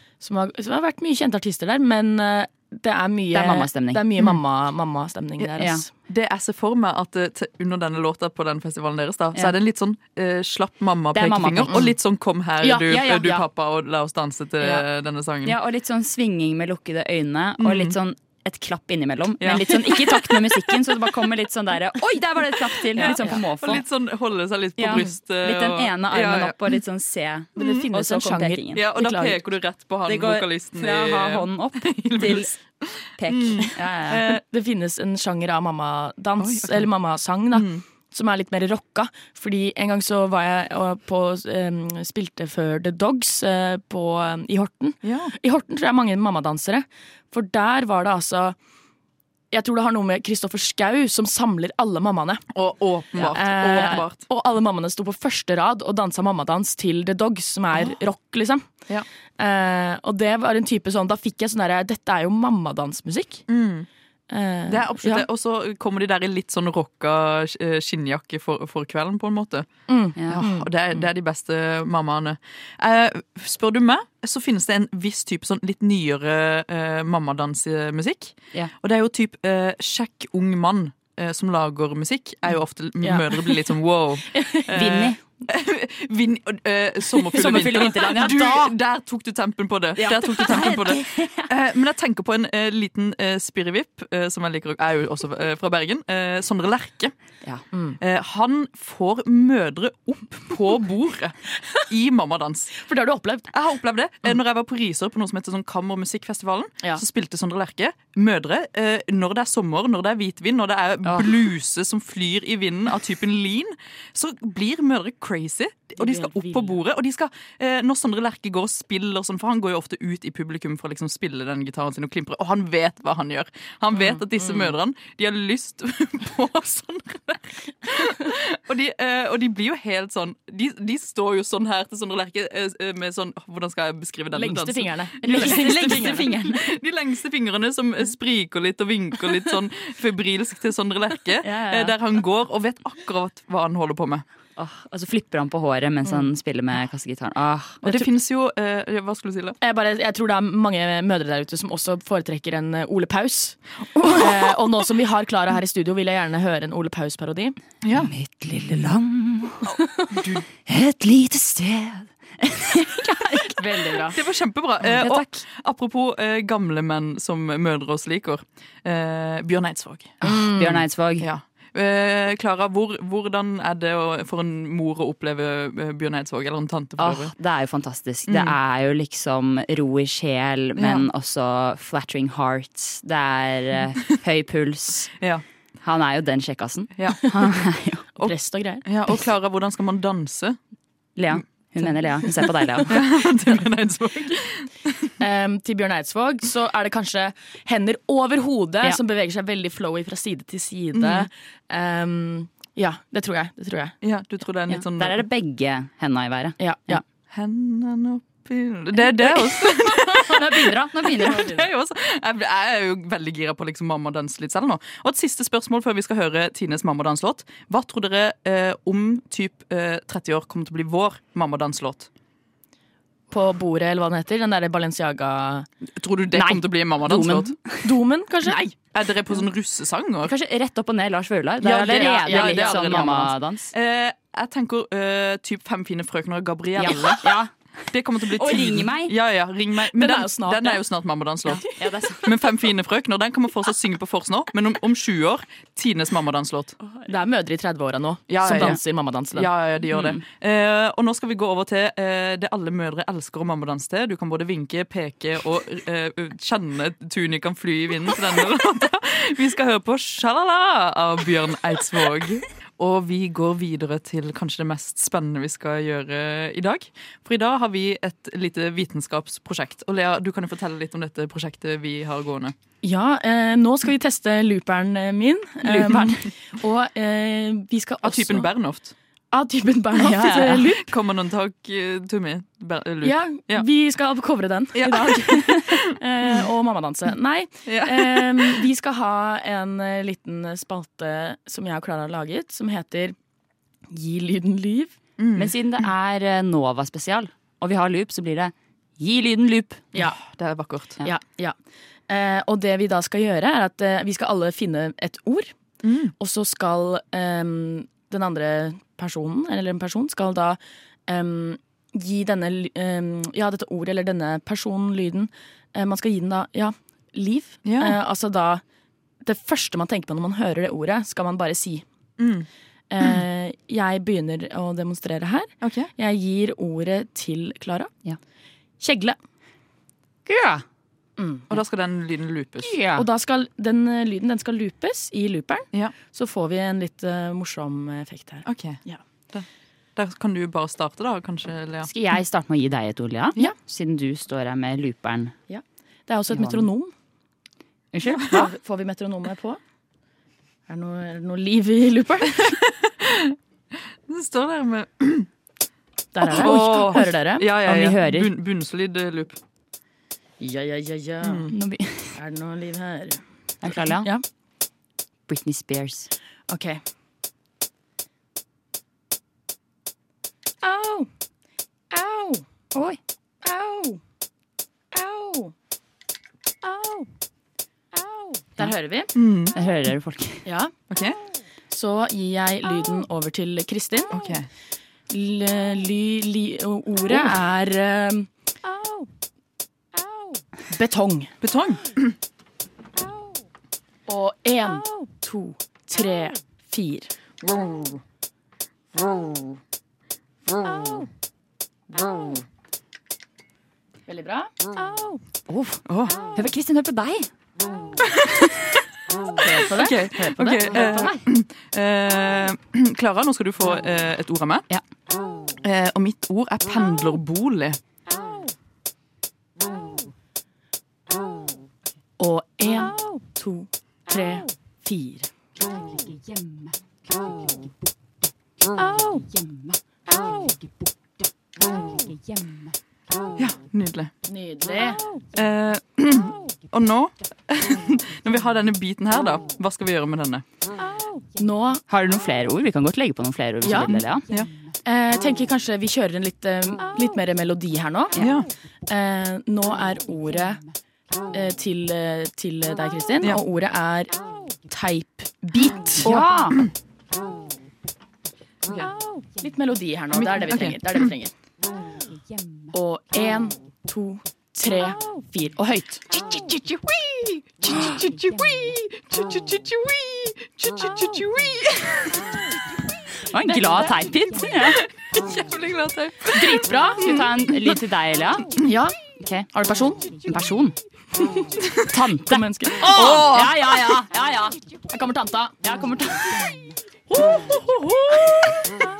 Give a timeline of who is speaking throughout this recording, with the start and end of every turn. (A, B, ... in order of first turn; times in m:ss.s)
0:00.2-0:05.9 A
0:03.3-0:04.0 B
0:05.6-0:05.8 B
0:06.0-0:15.6 C
0:11.1-0:11.9 B
0:12.6-0:13.4 B
0:15.4-0:23.8 B
0:17.6-0:18.0 C
0:19.4-0:20.8 C
0:22.5-0:26.8 C
0:23.0-0:23.4 A
0:24.8-0:28.8 B
0:27.6-0:29.4 A
0:27.6-0:27.8 C
0:28.7-0:34.4 C
0:30.0-0:32.5 B
0:33.2-0:34.3 B
0:34.2-0:48.6 A
0:36.4-0:36.9 C
0:37.5-0:37.8 C
0:45.0-0:45.3 C
0:49.5-0:52.4 A
0:52.5-0:54.2 C
0:53.2-0:58.6 A
0:59.4-1:03.4 A
1:03.5-1:03.9 C
1:04.3-1:05.2 A
1:04.7-1:09.7 C
1:09.9-1:10.7 A
1:10.2-1:10.4 B
1:10.3-1:37.1 C
1:23.0-1:23.6 A
1:24.3-1:24.7 A
1:24.7-1:25.2 B
1:27.3-1:28.7 B
1:30.0-1:31.5 B
1:37.7-1:38.0 A
1:38.0-1:42.8 C
1:42.8-1:43.5 A
1:43.5-2:24.2 C
2:04.0-2:04.7 A
2:14.3-2:16.3 A
2:15.2-2:16.6 B
2:21.4-2:21.9 B
2:24.6-2:28.0 B
2:27.8-2:29.6 C
2:29.6-2:37.5 A
2:37.8-2:38.1 C
2:37.9-2:39.7 B
2:40.1-2:40.4 C
2:40.6-2:44.2 B
2:43.6-2:44.1 A
2:44.1-2:50.2 C
2:44.8-2:45.4 B
2:50.2-2:51.3 B
2:50.2-2:50.8 A
2:51.2-2:57.3 C
2:57.0-3:05.1 B
2:58.3-2:58.6 C
3:00.8-3:01.1 C
3:05.8-3:08.1 B
3:07.0-3:07.3 C
3:08.2-3:08.8 A
3:08.8-3:10.6 C
3:11.2-3:13.0 B
3:12.9-3:14.9 C
3:15.2-3:23.9 A
3:20.9-3:21.3 C
3:24.0-3:25.2 C
3:24.7-3:27.0 B
3:26.6-3:27.0 A
3:27.3-3:42.1 C
3:29.8-3:31.7 B
3:43.3-3:45.7 A
3:46.0-3:47.5 C
3:46.3-3:47.9 B
3:47.8-3:48.6 A
3:48.9-3:50.3 C
3:50.2-3:53.7 B
3:51.6-3:57.3 C
3:51.9-3:53.3 A
3:56.8-3:57.5 B
3:57.9-4:01.6 C
3:58.2-3:59.1 B
3:59.9-4:00.8 A
4:01.5-4:02.3 B
4:02.2-4:06.8 C
4:07.1-4:09.5 A
4:08.3-4:08.8 C
4:09.3-4:32.5 C
4:09.9-4:10.2 B
4:32.8-4:38.5 A
4:35.6-4:36.1 C
4:38.0-4:38.9 C
4:39.3-4:40.9 A
4:40.2-4:43.6 C
4:43.0-4:53.1 A
4:44.7-4:46.4 C
4:47.6-4:48.6 C
4:53.9-4:55.0 A
4:55.2-4:55.6 C
4:55.3-4:59.8 B
5:00.0-5:01.0 C
5:01.0-5:01.6 A
5:02.1-5:05.5 A
5:05.8-5:06.1 C
5:06.2-5:18.6 A
5:17.6-5:18.0 C
5:19.2-5:21.8 A
5:22.2-5:22.5 C
5:22.9-5:27.9 A
5:25.6-5:25.9 C
5:28.8-5:29.2 A
5:30.2-5:30.6 B
5:31.2-5:31.4 A
5:31.5-5:32.7 C
5:32.6-5:33.0 B
5:32.9-5:39.0 A
5:38.4-5:38.8 C
5:40.0-5:41.9 C
5:41.8-5:45.3 B
5:45.5-5:46.9 A
5:46.3-5:46.6 B
5:47.9-5:48.5 B
5:48.1-5:49.6 A
5:50.7-5:52.5 A
5:52.5-5:53.3 C
5:54.1-5:55.3 C
5:56.1-5:57.4 A
5:56.2-5:59.4 C
5:57.6-5:58.3 B
6:00.4-6:01.5 A
6:01.5-6:02.1 B
6:02.2-6:03.2 A
6:03.6-6:04.1 B
6:04.0-6:04.2 A
6:05.3-6:06.1 B
6:06.5-6:06.8 A
6:10.6-6:11.1 A
6:11.9-6:12.4 A
6:12.7-6:13.0 B
6:13.4-6:14.0 A
6:14.9-6:15.5 A
6:18.6-6:19.1 A
6:19.1-6:19.6 C
6:19.5-6:20.4 B
6:20.4-6:20.7 A
6:20.9-6:21.2 C
6:21.7-6:24.1 A
6:24.1-6:24.5 C
6:25.1-6:28.3 A
6:30.7-6:31.3 A
6:31.4-6:32.1 C
6:34.1-6:37.1 A
6:44.1-6:44.5 A
6:45.5-6:47.3 B
6:45.9-6:46.1 C
6:49.4-6:50.8 A
6:49.8-6:54.7 C
6:50.7-6:51.2 B
6:55.6-6:57.8 C
7:02.2-7:05.3 A
7:13.4-7:14.1 C
7:14.3-7:15.0 A
7:15.3-7:20.4 C
7:21.4-7:21.8 A
7:21.9-7:24.2 B
7:23.6-7:24.0 A
7:24.8-7:28.2 A
7:28.2-7:28.5 C
7:28.9-7:30.6 A
7:31.3-7:34.1 A
7:34.7-7:36.2 A
7:36.0-7:36.6 B
7:36.0-7:36.7 C
7:38.6-7:38.9 C
7:39.4-7:41.3 A
7:40.1-7:41.1 C
7:42.7-7:46.0 A
7:46.1-7:52.2 C
7:53.3-7:54.8 B
7:53.4-7:53.9 A
7:54.7-7:57.4 C
7:56.3-7:57.1 A
7:57.0-7:58.5 B
7:58.6-7:59.0 A
7:59.2-7:59.5 B
7:59.5-8:00.1 A
8:00.2-8:00.8 B
8:01.2-8:01.5 A
8:01.9-8:04.6 B
8:02.2-8:03.3 A
8:02.8-8:03.8 C
8:04.9-8:05.6 A
8:05.6-8:06.5 B
8:07.3-8:08.0 C